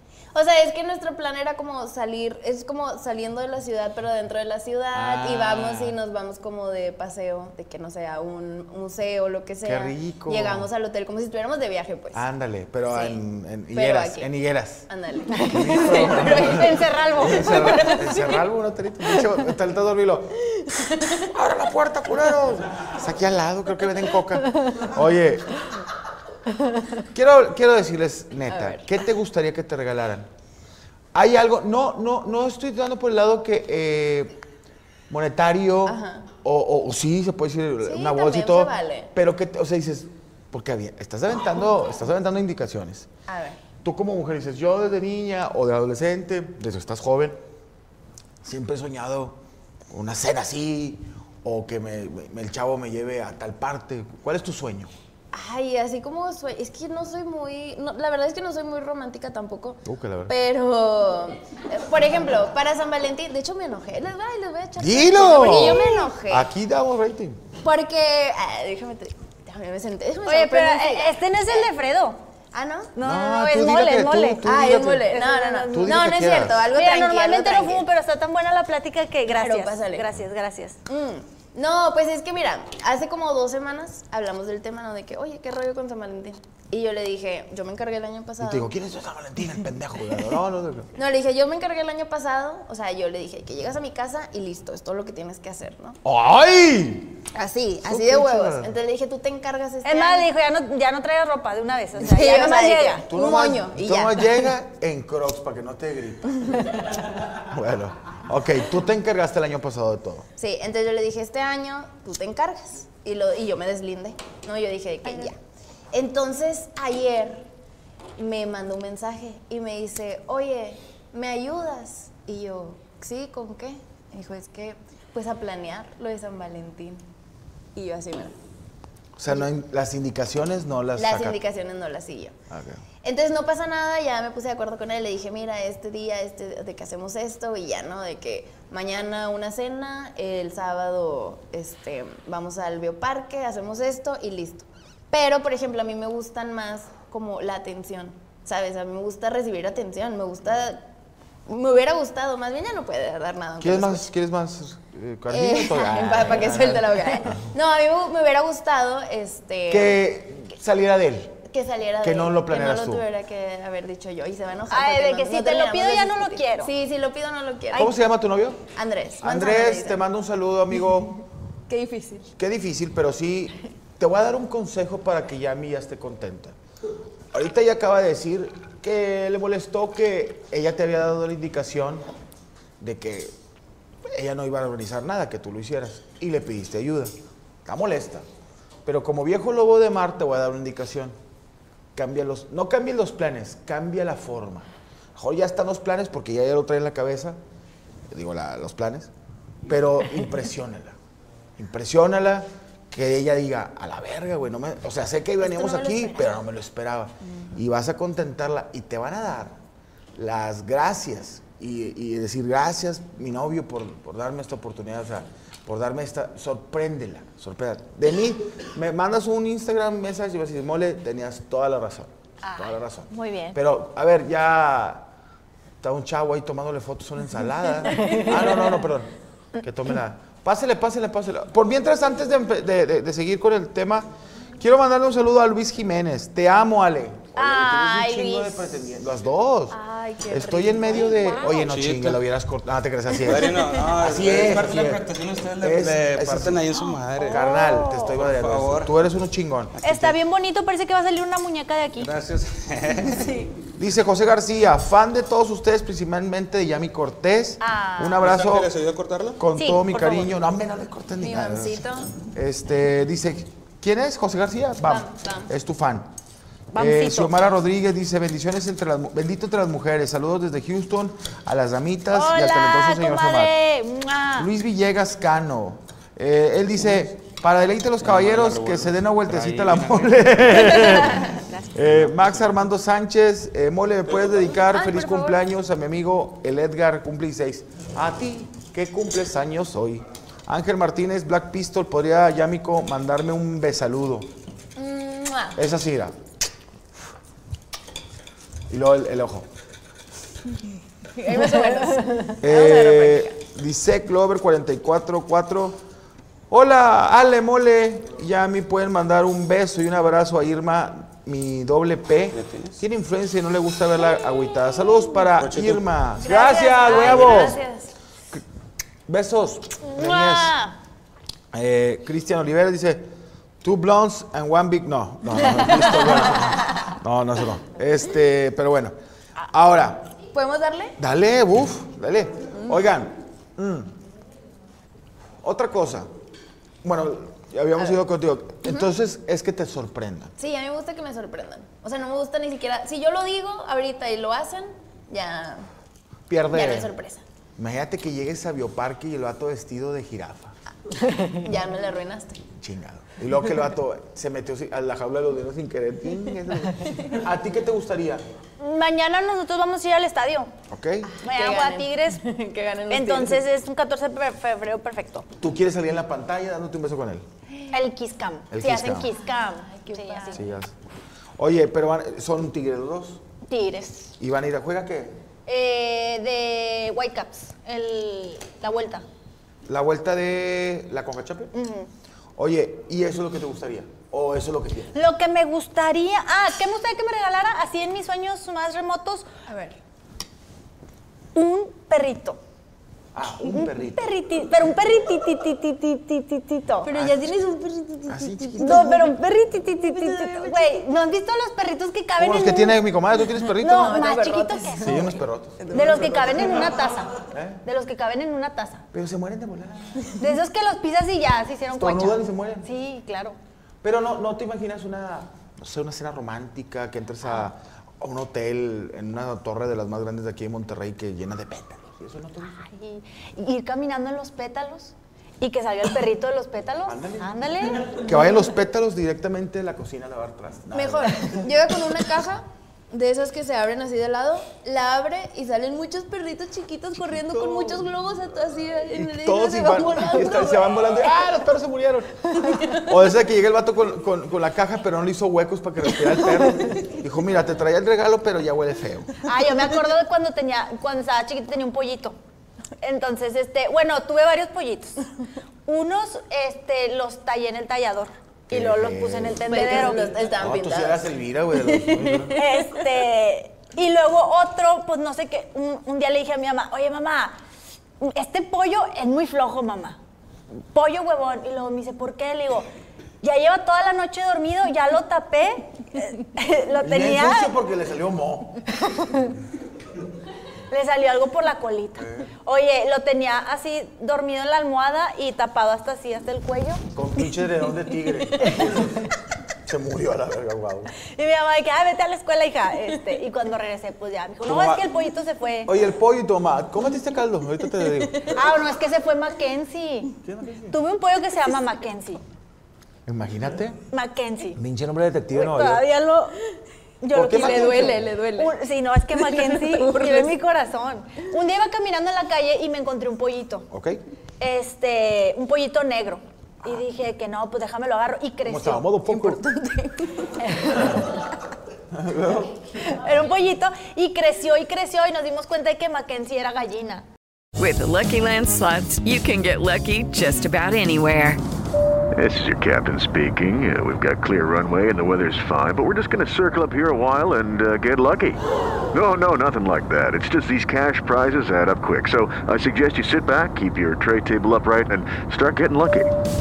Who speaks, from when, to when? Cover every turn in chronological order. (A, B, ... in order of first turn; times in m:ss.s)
0:00.3-0:12.2 A
0:04.9-0:06.0 B
0:09.6-0:10.7 B
0:12.1-0:14.9 B
0:12.9-0:13.2 A
0:13.7-0:14.3 A
0:14.9-0:18.4 A
0:15.3-0:18.1 C
0:15.5-0:20.4 B
0:20.5-0:21.3 A
0:21.2-0:25.6 B
0:27.1-0:30.3 B
0:28.5-0:28.9 A
0:31.1-0:34.4 B
0:35.1-0:43.1 B
0:35.8-0:36.3 A
0:37.8-0:39.1 A
0:43.3-0:43.6 A
0:43.8-0:47.4 B
0:48.4-0:49.4 B
0:49.9-0:54.9 B
0:55.3-1:06.5 A
0:59.8-1:00.3 B
1:04.8-1:07.4 B
1:05.4-1:06.0 C
1:07.6-1:11.6 A
1:10.2-1:12.2 C
1:12.5-1:12.9 A
1:12.9-1:20.8 C
1:13.0-1:16.7 B
1:14.4-1:17.9 A
1:19.3-1:20.0 A
1:20.9-1:28.7 A
1:28.4-1:30.9 B
1:30.9-1:36.0 A
1:36.0-1:37.2 B
1:37.3-1:40.3 A
1:37.8-1:38.7 B
1:39.8-1:43.0 C
1:42.0-1:44.4 A
1:43.1-1:50.3 B
1:50.4-1:55.4 A
1:55.9-1:57.5 A
1:58.2-2:07.0 A
2:07.7-2:08.4 A
2:09.2-2:11.4 B
2:11.0-2:12.3 A
2:12.5-2:12.8 B
2:13.0-2:30.8 A
2:31.5-2:34.1 A
2:33.6-2:37.4 B
2:35.3-2:40.0 A
2:39.7-2:41.4 B
2:41.5-2:47.9 A
2:42.0-2:43.0 B
2:44.7-2:46.7 C
2:47.7-2:48.7 B
2:48.8-2:50.0 A
2:49.2-2:51.2 B
2:51.7-2:52.3 A
2:52.4-2:56.6 B
2:57.3-3:02.1 B
3:02.8-3:03.3 B
3:04.0-3:07.1 B
3:07.6-3:08.2 B
3:08.8-3:11.2 B
3:11.9-3:17.4 B
3:18.1-3:19.1 B
3:19.7-3:21.0 B
3:21.6-3:29.6 B
3:25.4-3:26.4 A
3:30.2-3:45.1 B
3:42.4-3:43.6 C
3:45.8-4:10.2 B
3:47.9-3:48.7 C
3:57.4-3:58.7 A
3:59.7-4:01.5 A
4:01.5-4:02.2 D
4:03.2-4:08.9 D
4:07.5-4:07.9 C
4:09.8-4:12.1 C
4:12.0-4:13.5 D
4:13.8-4:18.7 B
4:17.6-4:18.3 C
4:18.2-4:19.4 D
4:19.4-4:26.1 B
4:19.6-4:20.3 C
4:21.2-4:22.1 A
4:24.8-4:25.5 A
4:26.7-4:27.4 C
4:26.7-4:33.5 B
4:32.1-4:34.5 C
4:34.4-4:54.3 B
4:38.0-4:42.5 D
4:40.8-4:41.2 A
4:44.1-4:44.5 D
4:44.7-4:45.4 A
4:54.8-4:55.6 A
4:55.6-4:56.1 B
4:58.7-4:59.5 B
5:01.1-5:03.3 A
5:02.4-5:05.8 B
5:06.5-5:17.6 B
5:12.3-5:12.8 D
5:15.4-5:15.8 D
5:16.2-5:17.9 A
5:16.8-5:17.5 C
5:19.1-5:20.6 B
5:20.0-5:20.7 C
5:21.5-5:23.0 B
5:23.6-5:30.1 B
5:30.3-5:31.0 A
5:31.0-5:33.9 B
5:32.5-5:32.8 A
5:35.4-5:36.1 B
5:36.8-5:40.3 B
5:40.4-5:45.7 A
5:46.3-5:46.9 B
5:46.5-5:47.2 A
5:47.6-5:50.6 B
5:51.3-5:52.4 A
5:52.5-5:58.2 B
5:58.6-6:00.5 C
6:00.7-6:01.2 B
6:01.2-6:03.4 A
6:01.2-6:02.2 C
6:02.9-6:05.3 C
6:05.4-6:07.2 B
6:07.7-6:10.4 C
6:08.5-6:09.1 B
6:09.2-6:10.5 A
6:10.3-6:10.7 B
6:11.4-6:13.2 B
6:13.5-6:14.1 C
6:14.2-6:15.2 B
6:15.5-6:19.0 C
6:19.6-6:21.5 B
6:21.5-6:21.9 C
6:22.4-6:25.0 B
6:24.9-6:29.3 C
6:29.5-6:29.8 A
6:31.3-6:32.4 C
6:33.1-6:34.2 B
6:33.3-6:36.9 C
6:36.8-6:40.8 A
6:36.9-6:37.3 B
6:38.1-6:39.0 B
6:38.6-6:42.8 C
6:42.2-6:44.0 B
6:43.6-6:46.7 A
6:43.6-6:45.2 C
6:44.8-6:46.5 B
6:45.7-6:48.8 C
6:47.3-6:47.6 B
6:48.9-6:50.1 B
6:50.2-6:53.4 C
6:51.7-6:52.7 B
6:53.8-7:02.6 B
7:02.5-7:08.0 C
7:06.8-7:11.4 B
7:10.7-7:20.9 A
7:17.0-7:17.9 B
7:18.9-7:29.2 B
7:22.4-7:22.8 A
7:29.2-7:32.2 C
7:32.8-7:35.0 C
7:35.6-7:40.1 C
7:38.5-7:42.4 B
7:39.5-7:42.8 A
7:42.3-7:47.4 C
7:48.0-7:50.0 C
7:50.7-7:52.7 C
7:53.2-7:57.6 C
7:56.8-7:58.7 B
7:58.8-7:59.3 C
8:00.7-8:06.8 C
8:02.0-8:02.3 B
8:06.9-8:09.0 B
8:09.6-8:10.9 B
8:11.1-8:15.7 C
8:14.4-8:14.8 B
8:15.6-8:18.4 B
8:18.3-8:20.1 C
8:20.2-8:20.8 B
8:20.7-8:22.2 C
8:23.0-8:23.8 B
8:23.9-8:24.6 C
8:24.5-8:25.8 B
8:25.3-8:26.4 C
8:27.0-8:33.7 C
8:27.1-8:28.0 B
8:27.1-8:28.5 A
8:29.2-8:30.3 A
8:33.7-8:34.0 B
8:34.4-8:38.8 C
8:38.4-8:39.4 B
8:39.1-8:41.0 A
8:40.6-8:40.9 C
8:41.9-8:42.6 B
8:42.8-8:47.0 C
8:47.6-8:51.4 E
8:52.1-8:58.4 F
8:58.9-9:06.1 F